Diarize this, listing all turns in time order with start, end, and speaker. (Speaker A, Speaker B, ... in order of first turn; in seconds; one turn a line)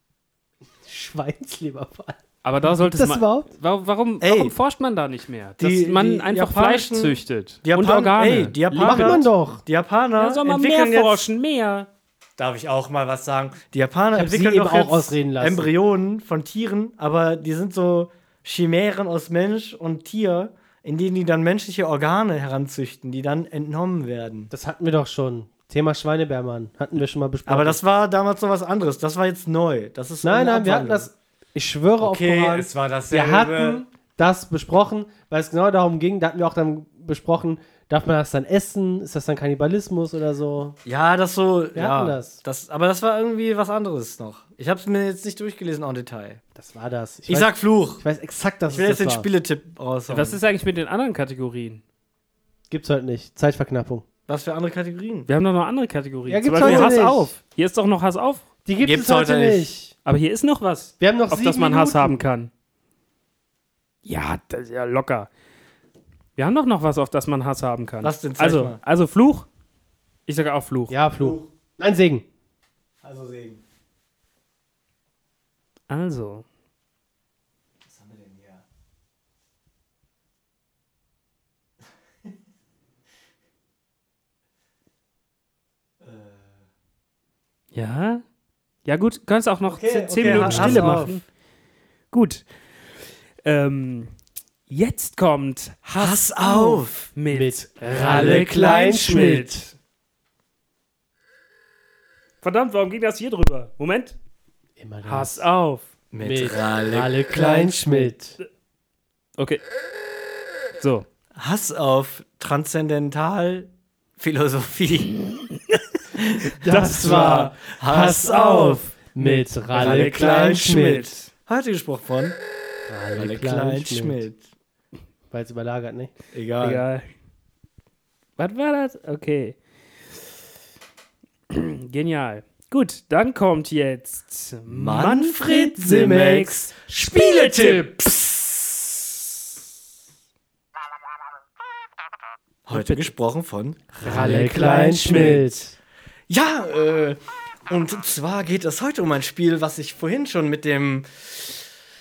Speaker A: 0.8-2.2
Speaker B: 2.4-9.2
Speaker A: 2.8-3.5
Speaker C: 4.2-4.5
Speaker C: 5.6-11.2
Speaker A: 8.7-9.6
Speaker B: 10.2-11.9
Speaker C: 12.4-24.5
Speaker A: 14.1-15.7
Speaker A: 24.5-27.8
Speaker C: 27.5-31.1
Speaker A: 30.2-40.8
Speaker C: 32.0-33.8
Speaker C: 40.9-46.4
Speaker A: 41.8-42.4
Speaker A: 46.6-49.3
Speaker C: 47.3-48.0
Speaker C: 48.7-50.4
Speaker B: 50.1-51.8
Speaker A: 52.7-54.1
Speaker C: 54.3-55.3
Speaker B: 55.3-58.5
Speaker A: 56.3-57.3
Speaker C: 56.6-57.0
Speaker A: 58.7-59.9
Speaker C: 58.8-59.7
Speaker B: 60.0-62.5
Speaker A: 61.0-62.2
Speaker B: 64.0-65.3
Speaker B: 66.4-69.5
Speaker C: 68.0-68.8
Speaker B: 70.3-71.0
Speaker A: 70.9-72.3
Speaker C: 73.0-73.6
Speaker B: 75.9-76.5
Speaker C: 77.9-78.6
Speaker C: 86.0-86.5
Speaker B: 87.7-88.2
Speaker B: 88.8-91.2
Speaker C: 89.7-91.2
Speaker A: 90.2-91.1
Speaker B: 92.1-92.5
Speaker B: 93.4-94.1
Speaker B: 94.7-99.7
Speaker C: 96.0-97.1
Speaker A: 96.5-96.8
Speaker A: 97.3-99.6
Speaker C: 97.9-99.4
Speaker B: 102.4-104.2
Speaker A: 104.8-105.5
Speaker B: 105.0-105.9
Speaker C: 106.1-108.1
Speaker A: 106.2-108.4
Speaker B: 109.4-109.6
Speaker B: 110.8-111.1
Speaker C: 111.4-115.1
Speaker B: 115.1-115.8
Speaker C: 116.2-118.9
Speaker B: 116.4-117.5
Speaker A: 116.6-121.1
Speaker B: 119.2-121.3
Speaker C: 119.7-122.4
Speaker A: 122.9-124.3
Speaker C: 123.2-124.4
Speaker A: 125.3-126.1
Speaker C: 126.3-126.8
Speaker B: 126.6-127.1
Speaker B: 128.4-129.6
Speaker B: 131.5-137.9
Speaker C: 134.7-138.9
Speaker C: 142.7-144.0
Speaker B: 142.7-143.1
Speaker A: 144.0-145.7
Speaker B: 144.0-145.7
Speaker C: 146.3-151.6